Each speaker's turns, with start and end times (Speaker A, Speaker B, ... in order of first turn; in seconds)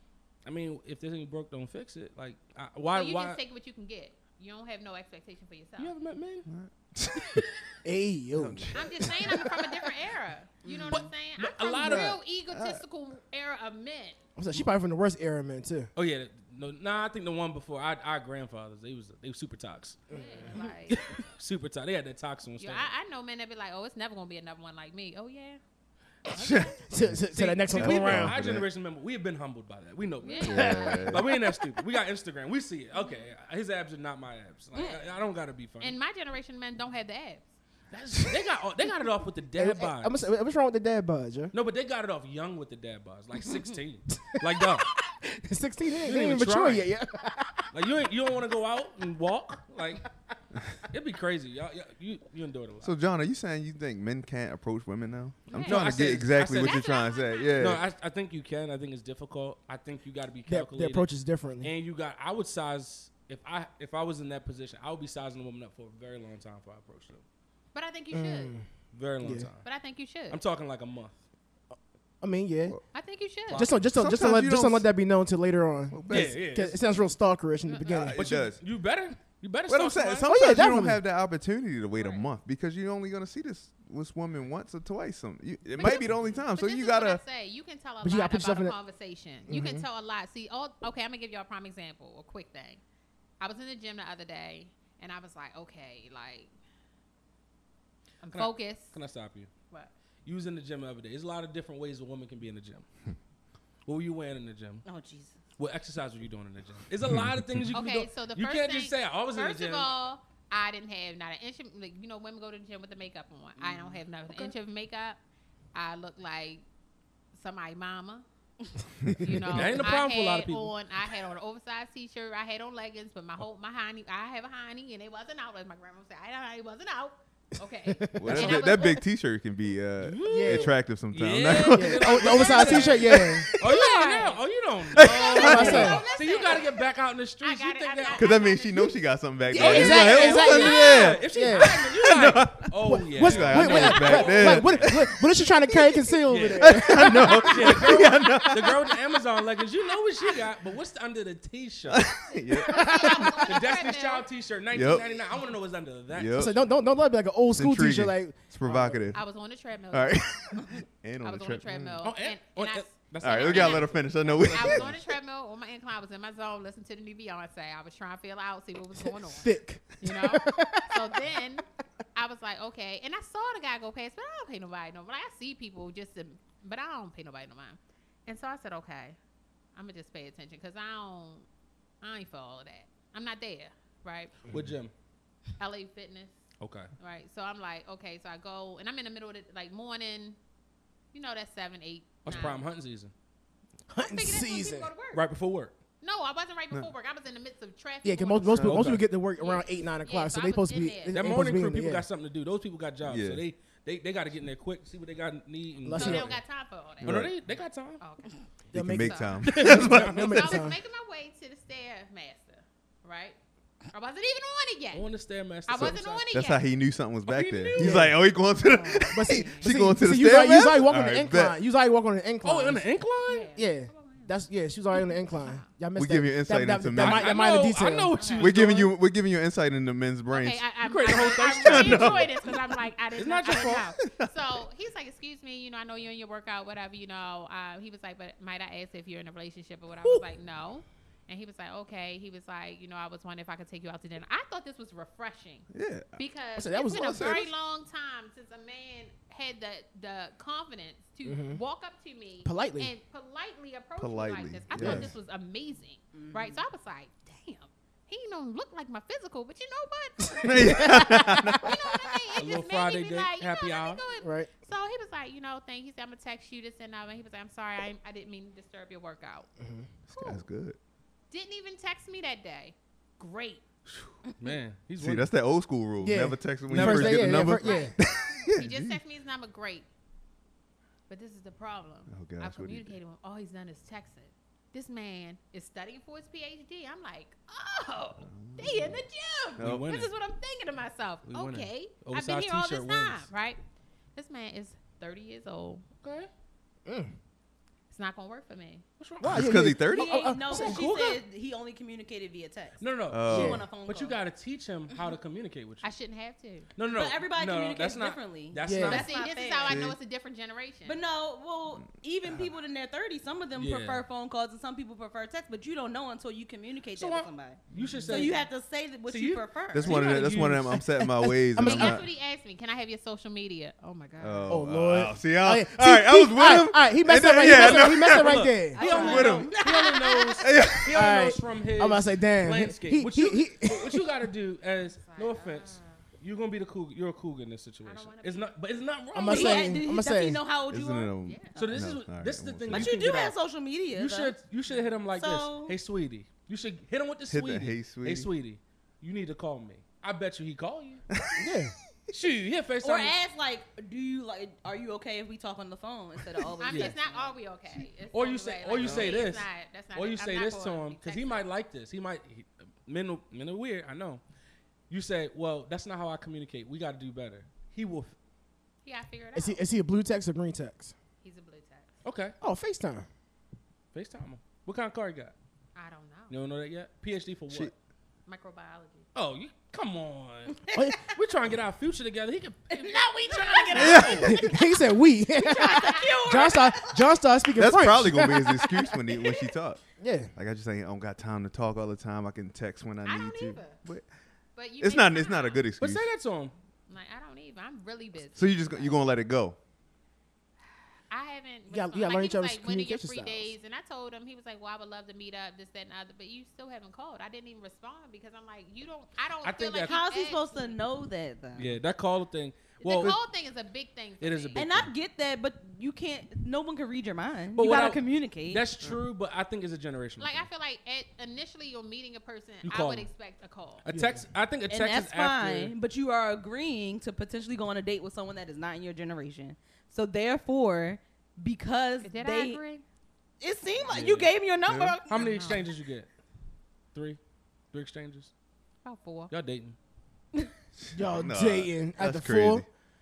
Speaker A: 0.5-3.4, 5.8-6.5, 10.9-12.2, 15.9-20.0, 20.9-22.9, 27.3-36.0, 37.9-40.2, 41.5-44.9, 46.0-46.9, 47.7-50.1, 50.9-53.0, 55.5-56.9, 57.5-61.1, 61.6-67.2, 68.9-69.7, 70.3-71.2, 73.5-73.8, 76.1-76.8, 78.2-80.3, 98.3-99.5, 100.2-102.8, 103.9-104.8, 105.6-109.9, 119.5-120.7, 130.0-138.4, 139.5-145.0, 146.3-152.2, 153.4-156.6, 162.0-164.9, 184.5-184.9, 186.6-186.9, 192.2-193.1, 195.1-195.7, 198.6-199.1, 201.1-206.4, 207.0-208.0, 209.4-210.6, 214.9-216.2, 217.3-218.1, 222.4-223.5, 226.9-228.9, 230.8-232.6, 233.2-233.9, 262.4-264.0, 274.4-275.3, 276.7-277.5, 289.6-290.1, 291.3-293.3, 296.0-296.3, 299.0-299.6, 300.6-301.1, 302.8-305.9, 306.8-309.3, 313.6-314.1, 316.9-318.5, 319.1-320.8, 327.4-339.8, 341.6-343.4, 343.9-351.0, 352.1-353.1, 356.6-357.0, 358.1-364.2, 364.9-368.2, 372.0-372.4, 373.9-375.4, 376.3-377.7, 379.1-384.5, 395.8-396.5, 409.4-410.0, 411.6-413.1, 414.2-414.9, 417.6-420.5, 422.6-423.1, 423.8-425.7, 433.8-434.3, 435.1-436.1, 436.9-437.2, 437.7-438.3, 439.3-439.8
Speaker B: 2.9-5.9, 8.7-14.2, 20.1-21.2, 22.6-25.6, 26.3-26.8, 30.2-31.0, 32.9-33.3, 35.8-37.5, 55.5-57.8, 67.7-68.5, 69.6-70.4, 72.9-73.7, 77.7-78.1, 82.0-82.3, 85.8-92.8, 93.4-96.5, 98.2-99.0, 107.7-115.2, 115.7-116.7, 117.3-118.2, 119.2-129.0, 132.3-134.4, 135.0-136.9, 137.4-138.9, 144.0-144.4, 152.5-154.3, 159.1-160.3, 161.2-179.2, 179.8-181.5, 182.0-184.3, 185.6-186.4, 187.0-190.4, 191.1-192.6, 194.0-195.2, 196.0-201.3, 205.9-207.1, 208.0-213.4, 213.9-215.1, 215.7-216.7, 218.7-219.7, 223.3-224.3, 224.9-225.7, 228.1-228.6, 230.3-269.5, 270.1-270.4, 271.3-273.6, 277.4-279.9, 281.1-293.6, 294.1-295.9, 297.9-298.8, 305.8-306.7, 308.9-311.0, 317.9-318.3, 321.6-324.6, 328.8-329.2, 335.0-336.0, 337.9-338.6, 341.2-341.6, 356.6-361.5, 368.8-369.6, 371.2-371.9, 375.8-376.4, 378.3-379.1, 382.8-384.1, 385.6-386.3, 393.0-393.8, 394.6-395.7, 396.9-399.0, 401.1-410.8, 412.8-414.7, 420.2-423.8, 432.0-432.9, 435.1-435.7, 438.9-439.3
Speaker C: 6.5-7.6, 8.3-9.6, 11.8-12.8, 26.3-27.2, 27.8-28.7, 30.4-31.4, 52.8-57.8, 73.8-74.9, 75.9-76.4, 77.8-78.6, 79.7-87.2, 119.0-119.8, 128.2-133.6, 134.9-135.9, 138.2-145.4, 146.6-149.1, 151.9-153.5, 154.7-155.2, 156.1-156.6, 157.5-159.2, 159.9-162.1, 163.2-165.1, 203.0-203.4, 207.0-207.3, 208.7-210.6, 215.8-221.6, 226.0-227.4, 228.4-232.3, 234.1-234.4, 245.7-246.2, 246.8-247.5, 254.0-255.1, 260.4-261.7, 270.1-270.8, 273.9-274.1, 275.0-279.0, 282.1-283.0, 288.3-289.0, 289.6-289.9, 299.2-300.3, 303.1-303.6, 309.6-309.9, 319.7-322.1, 324.2-329.6, 330.4-330.9, 340.7-343.0, 347.3-348.3, 351.2-351.5, 358.8-359.1, 383.7-384.5, 387.6-389.8, 390.4-394.1, 394.8-396.1, 398.2-399.6, 434.7-435.0, 440.8-442.7
Speaker D: 7.8-8.7, 14.4-15.9, 20.1-20.5, 26.9-28.3, 30.5-31.1, 39.5-41.5, 44.2-47.7, 60.5-61.7, 68.1-68.7, 69.2-69.5, 72.2-72.8, 73.5-78.2, 80.2-81.0, 85.8-86.1, 88.0-88.8, 89.5-89.8, 127.9-128.9, 130.2-130.7, 131.7-133.6, 135.4-136.0, 139.5-141.9, 142.8-147.9, 156.3-159.1, 169.0-171.2, 193.9-194.9, 198.0-202.1, 205.8-206.3, 208.7-210.8, 217.8-218.2, 219.1-222.9, 223.6-228.1, 246.6-247.4, 251.2-251.6, 252.4-252.9, 254.8-255.1, 260.4-262.1, 264.2-264.5, 269.6-269.9, 276.0-278.0, 296.9-297.1, 299.2-301.2, 303.3-303.6, 308.7-309.0, 320.7-322.0, 324.5-328.9, 330.9-334.1, 339.1-340.4, 351.4-351.8, 369.4-370.9, 372.4-373.1, 380.7-381.0, 383.9-388.5, 390.0-390.3, 401.7-403.5, 423.9-424.2, 440.9-442.6
Speaker E: 10.6-11.1, 34.8-35.0, 104.8-105.4, 113.6-114.5, 256.1-256.6, 299.8-304.2, 306.9-309.8, 310.9-320.1, 328.7-330.5, 339.2-341.8, 342.7-344.4, 345.1-345.8, 352.8-357.4, 385.4-387.2, 388.8-389.5, 409.8-411.7, 414.6-418.6, 424.7-432.6, 433.4-435.3